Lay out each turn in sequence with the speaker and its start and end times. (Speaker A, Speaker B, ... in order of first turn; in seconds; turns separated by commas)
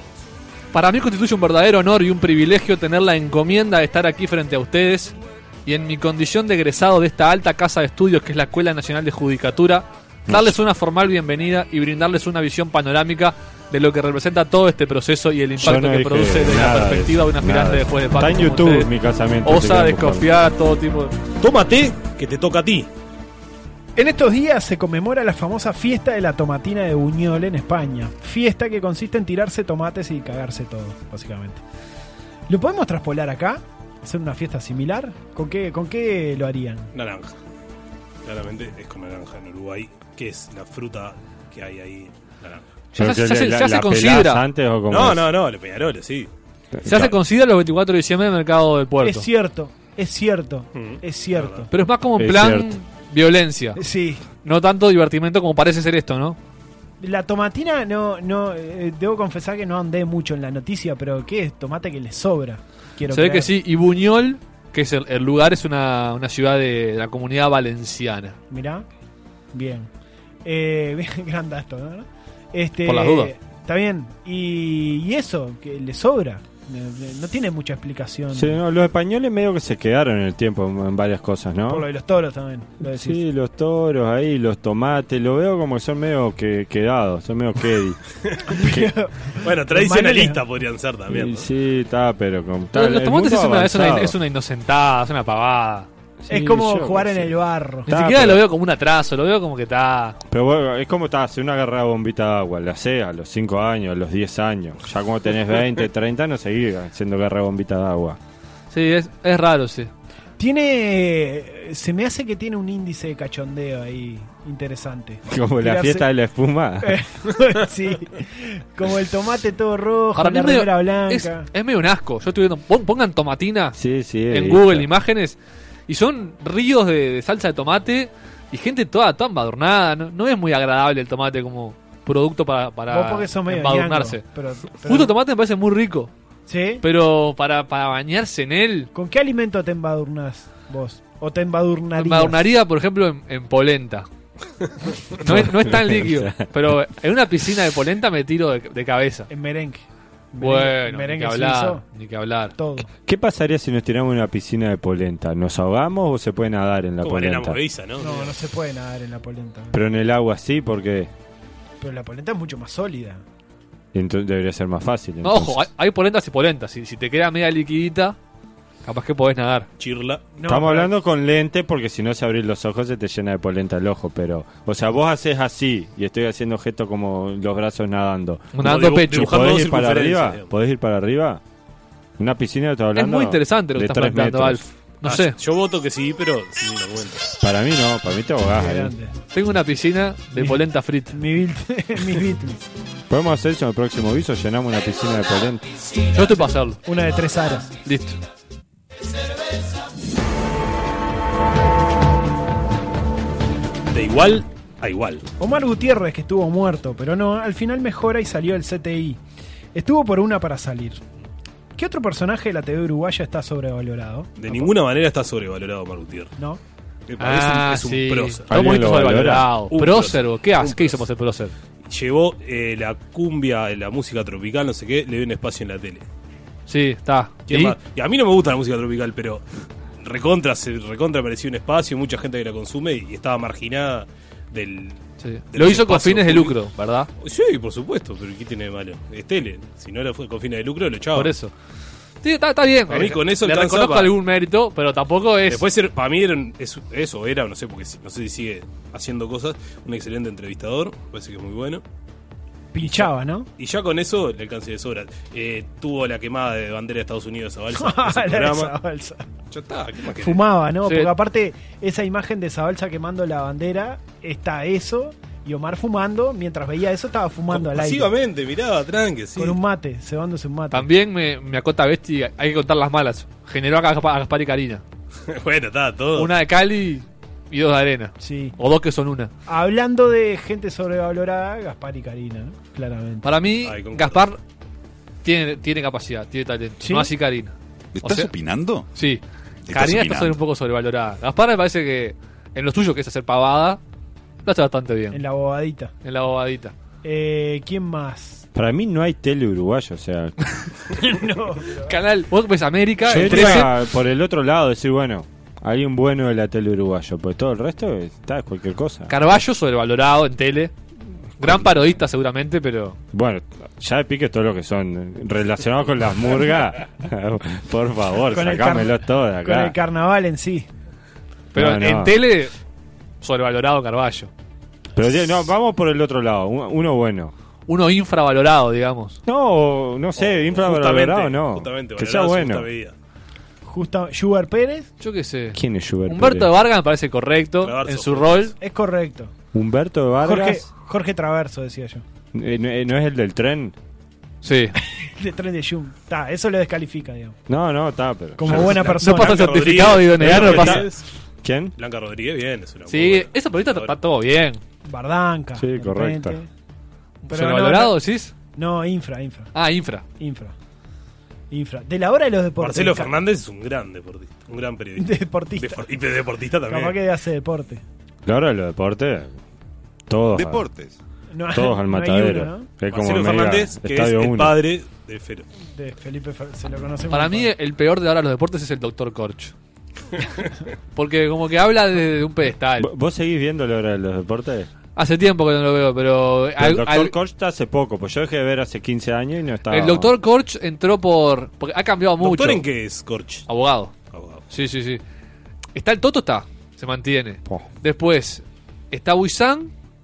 Speaker A: 0.7-18.9, Speaker B: 10.3-10.6, Speaker B: 15.6-20.3, Speaker A: 19.4-21.1, Speaker C: 21.4-22.9, Speaker D: 23.9-31.6, Speaker D: 32.5-36.9, Speaker C: 36.9-37.3, Speaker C: 38.2-42.6, Speaker B: 42.9-45.3, Speaker A: 43.0-44.4, Speaker C: 44.9-46.3, Speaker B: 46.8-47.1, Speaker A: 46.8-49.3, Speaker D: 49.0-51.7, Speaker C: 50.7-51.6, Speaker A: 51.7-53.8, Speaker B: 52.2-52.8, Speaker D: 53.8-54.2, Speaker A: 54.4-56.4, Speaker D: 57.0-63.5, Speaker A: 63.1-68.4, Speaker D: 68.5-68.8, Speaker D: 69.5-69.9, Speaker D: 70.4-78.6, Speaker A: 72.8-73.3, Speaker B: 78.3-81.9, Speaker D: 81.7-83.2, Speaker B: 82.8-88.0, Speaker D: 88.5-90.4, Speaker B: 88.5-88.9, Speaker C: 89.4-91.5, Speaker B: 91.1-94.2, Speaker A: 92.7-95.9, Speaker B: 96.2-97.3, Speaker D: 96.3-97.9, Speaker B: 97.9-98.5, Speaker A: 97.9-100.2, Speaker B: 100.3-108.2, Speaker A: 108.7-109.9, Speaker D: 110.4-116.0, Speaker B: 115.3-117.0, Speaker D: 116.8-121.5, Speaker A: 120.2-123.8, Speaker B: 123.7-124.9, Speaker A: 124.3-125.4, Speaker A: 125.9-134.2, Speaker D: 132.9-135.1, Speaker A: 134.8-136.1, Speaker D: 136.5-136.8, Speaker A: 136.8-138.9, Speaker D: 138.9-142.4, Speaker A: 142.0-144.1, Speaker A: 145.2-149.3, Speaker B: 145.2-146.4, Speaker D: 149.3-151.8, Speaker A: 150.4-152.5, Speaker D: 152.6-152.9, Speaker B: 153.0-157.6, Speaker C: 157.0-158.3, Speaker D: 158.0-159.8, Speaker B: 159.7-161.1, Speaker D: 161.8-163.2, Speaker B: 163.9-165.7, Speaker A: 165.2-168.2, Speaker A: 168.8-169.7, Speaker C: 169.8-170.2, Speaker D: 170.3-170.9, Speaker B: 170.4-181.4, Speaker A: 178.5-179.3, Speaker C: 178.6-180.5, Speaker B: 182.2-184.6, Speaker A: 182.9-185.3, Speaker C: 185.0-187.3, Speaker B: 187.4-188.9, Speaker D: 188.5-189.1, Speaker A: 189.3-191.2, Speaker D: 190.3-190.6, Speaker D: 191.1-192.7, Speaker B: 193.1-195.6, Speaker A: 196.1-196.8, Speaker D: 196.8-197.7, Speaker A: 197.8-198.2, Speaker C: 203.9-205.2, Speaker D: 205.4-209.2, Speaker D: 209.7-211.0, Speaker D: 211.8-214.7, Speaker C: 214.4-216.3, Speaker C: 217.1-218.5, Speaker A: 217.2-221.5, Speaker B: 218.5-219.5, Speaker C: 219.7-221.0, Speaker C: 221.8-226.0, Speaker A: 226.7-227.8, Speaker C: 227.5-229.4, Speaker C: 230.0-236.6, Speaker A: 235.2-237.1, Speaker C: 237.2-241.3, Speaker A: 241.1-241.5, Speaker A: 242.2-245.6, Speaker C: 242.9-244.1, Speaker C: 245.5-251.8, Speaker D: 252.7-253.5, Speaker C: 252.8-258.7, Speaker D: 257.7-259.2, Speaker C: 259.5-260.4, Speaker D: 260.2-268.1, Speaker A: 260.8-261.1, Speaker C: 267.5-269.6, Speaker D: 269.4-270.9, Speaker A: 270.7-274.8, Speaker C: 275.3-276.3, Speaker A: 276.1-279.3, Speaker D: 278.2-278.5, Speaker D: 279.5-283.3, Speaker A: 283.2-284.4, Speaker C: 283.6-284.2, Speaker A: 285.2-288.3, Speaker D: 286.8-287.1, Speaker E: 288.0-288.8, Speaker A: 288.9-293.8, Speaker E: 289.7-290.3, Speaker A: 294.4-295.2, Speaker D: 295.1-295.9, Speaker A: 296.0-296.7, Speaker D: 297.0-298.4, Speaker B: 298.5-300.5, Speaker D: 300.9-301.9, Speaker A: 301.8-303.7, Speaker B: 303.0-309.1, Speaker D: 303.2-303.6, Speaker A: 309.1-310.7, Speaker A: 311.4-313.0, Speaker B: 311.4-311.9, Speaker B: 313.1-319.8, Speaker D: 318.3-320.7, Speaker B: 321.5-322.2, Speaker A: 321.5-322.5, Speaker A: 323.2-324.3, Speaker B: 324.9-327.3, Speaker A: 327.7-329.2, Speaker B: 329.2-332.7, Speaker C: 330.2-332.9, Speaker D: 333.6-334.9, Speaker A: 335.0-338.5, Speaker B: 335.5-336.5, Speaker C: 337.6-338.5, Speaker D: 338.6-339.3, Speaker B: 339.5-340.6, Speaker D: 340.2-342.0, Speaker B: 342.3-343.7, Speaker A: 344.4-344.7, Speaker D: 344.9-347.4, Speaker B: 347.5-348.8, Speaker D: 348.4-350.0, Speaker A: 348.6-350.9, Speaker C: 348.6-351.0, Speaker B: 350.2-350.9, Speaker B: 351.4-351.7, Speaker C: 351.8-353.9, Speaker A: 352.9-354.6, Speaker D: 354.8-356.5, Speaker B: 355.6-356.4, Speaker A: 357.2-358.3, Speaker D: 357.3-358.0, Speaker D: 358.5-359.5, Speaker A: 359.5-360.0, Speaker D: 360.2-360.5, Speaker D: 361.5-363.1, Speaker C: 362.6-367.0, Speaker D: 365.0-365.9, Speaker D: 366.7-367.8, Speaker B: 368.2-369.4, Speaker B: 370.1-370.6, Speaker E: 370.4-370.9, Speaker D: 371.3-372.7, Speaker B: 371.5-374.6, Speaker C: 372.9-375.4, Speaker D: 375.7-377.5, Speaker A: 377.1-379.5, Speaker A: 380.9-382.9, Speaker B: 382.8-384.7, Speaker A: 384.9-387.1, Speaker B: 386.6-390.1, Speaker A: 389.7-392.6, Speaker C: 392.2-393.4, Speaker A: 393.5-393.9, Speaker C: 394.1-394.4, Speaker A: 394.5-395.0, Speaker A: 395.8-399.7